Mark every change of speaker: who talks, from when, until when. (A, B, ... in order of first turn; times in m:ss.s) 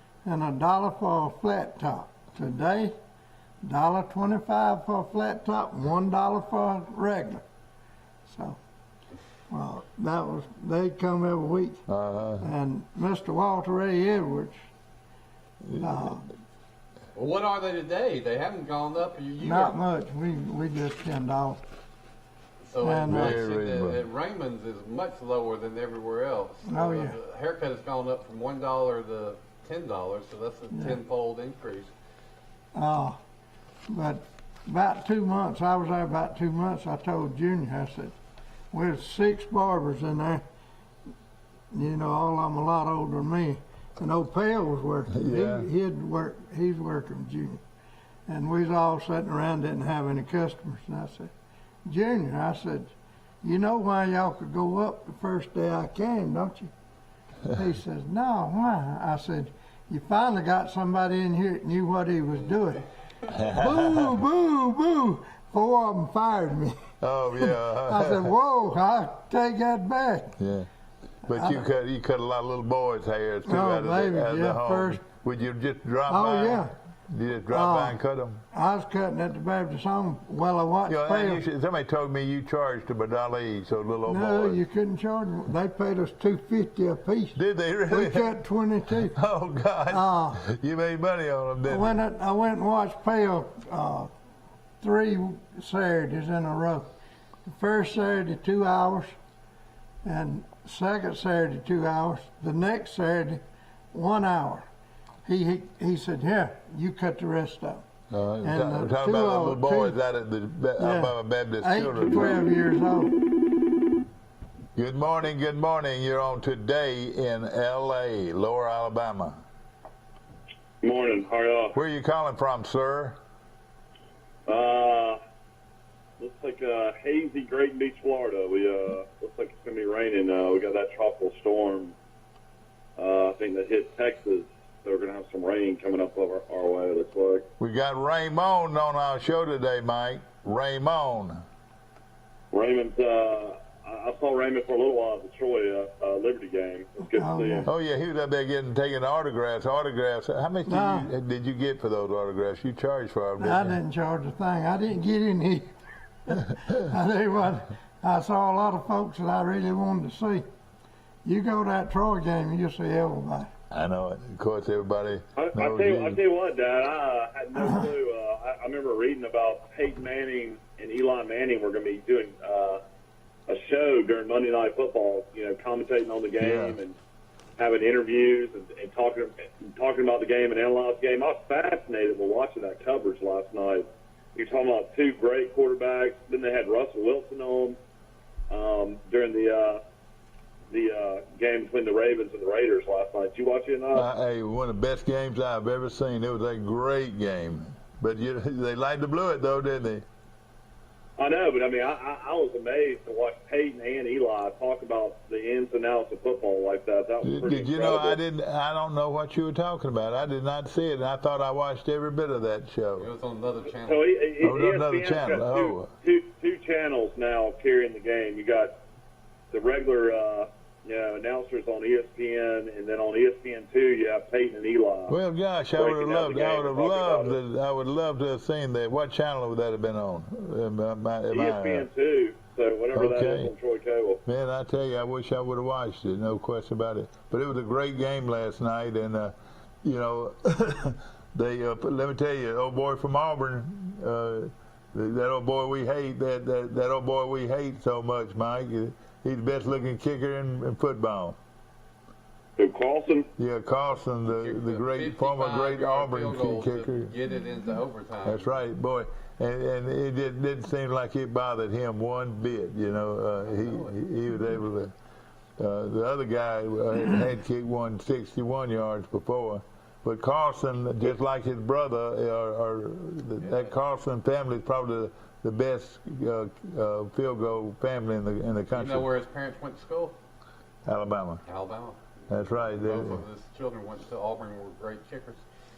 0:00.2-0:02.9 A
0:03.6-0:07.4 A
0:08.2-0:08.6 A
0:09.5-0:11.8 A
0:11.9-0:12.5 B
0:12.4-0:14.6 A
0:15.6-0:16.1 B
0:15.8-0:16.3 A
0:17.1-0:19.8 C
0:19.4-0:21.6 A
0:22.6-0:31.9 C
0:22.8-0:23.4 A
0:23.0-0:24.0 B
0:26.6-0:27.2 A
0:30.7-0:31.0 A
0:32.7-0:33.2 A
0:33.9-0:38.1 A
0:38.7-0:40.4 A
0:41.7-0:47.6 A
0:45.1-0:45.7 B
0:48.3-0:51.3 A
0:51.8-0:52.9 A
0:53.4-0:56.7 A
0:57.5-1:02.8 A
1:03.3-1:04.2 B
1:03.4-1:06.8 A
1:07.0-1:08.3 B
1:07.4-1:10.4 A
1:10.4-1:10.7 B
1:11.2-1:18.4 B
1:11.3-1:11.6 A
1:13.4-1:15.0 A
1:16.1-1:16.7 A
1:17.5-1:18.0 A
1:18.5-1:21.4 A
1:20.8-1:24.6 B
1:24.1-1:27.4 A
1:27.3-1:28.4 B
1:27.9-1:29.2 A
1:28.9-1:32.0 B
1:29.9-1:30.4 A
1:31.6-1:34.1 A
1:34.8-1:36.9 A
1:37.5-1:39.1 A
1:40.0-1:44.7 A
1:45.2-1:47.8 A
1:48.1-1:52.4 B
1:48.4-1:49.9 A
1:50.8-1:53.2 A
1:54.8-1:59.4 B
2:00.8-2:01.7 D
2:01.7-2:03.1 B
2:04.5-2:05.2 D
2:06.2-2:11.9 D
2:13.0-2:17.4 D
2:17.6-2:21.4 B
2:22.5-2:27.7 D
2:27.1-2:27.7 A
2:27.6-2:33.8 B
2:30.6-2:31.1 A
2:33.4-2:35.7 A
2:36.2-2:40.4 A
2:41.2-2:43.5 A
2:43.7-2:46.2 B
2:45.4-2:52.8 D
2:47.6-2:47.8 A
2:53.5-2:57.0 D
2:56.4-2:56.8 B
2:57.6-3:07.8 D
3:08.5-3:09.8 D
3:10.7-3:14.0 D
3:13.9-3:20.0 B
3:21.2-3:28.2 D
3:27.2-3:33.1 B
3:33.0-3:34.1 C
3:33.8-3:38.7 D
3:34.4-3:35.9 B
3:39.5-3:45.2 D
3:45.1-3:51.9 B
3:45.8-3:47.4 D
3:51.3-3:54.2 D
3:52.9-3:53.5 B
3:54.2-4:11.4 B
4:12.6-4:13.3 D
4:13.4-4:17.1 B
4:14.3-4:18.5 C
4:18.2-4:24.9 B
4:23.5-4:24.0 C
4:25.6-4:39.1 B
4:38.7-4:40.2 C
4:40.8-4:41.4 B
4:41.4-4:45.4 C
4:42.3-4:43.2 B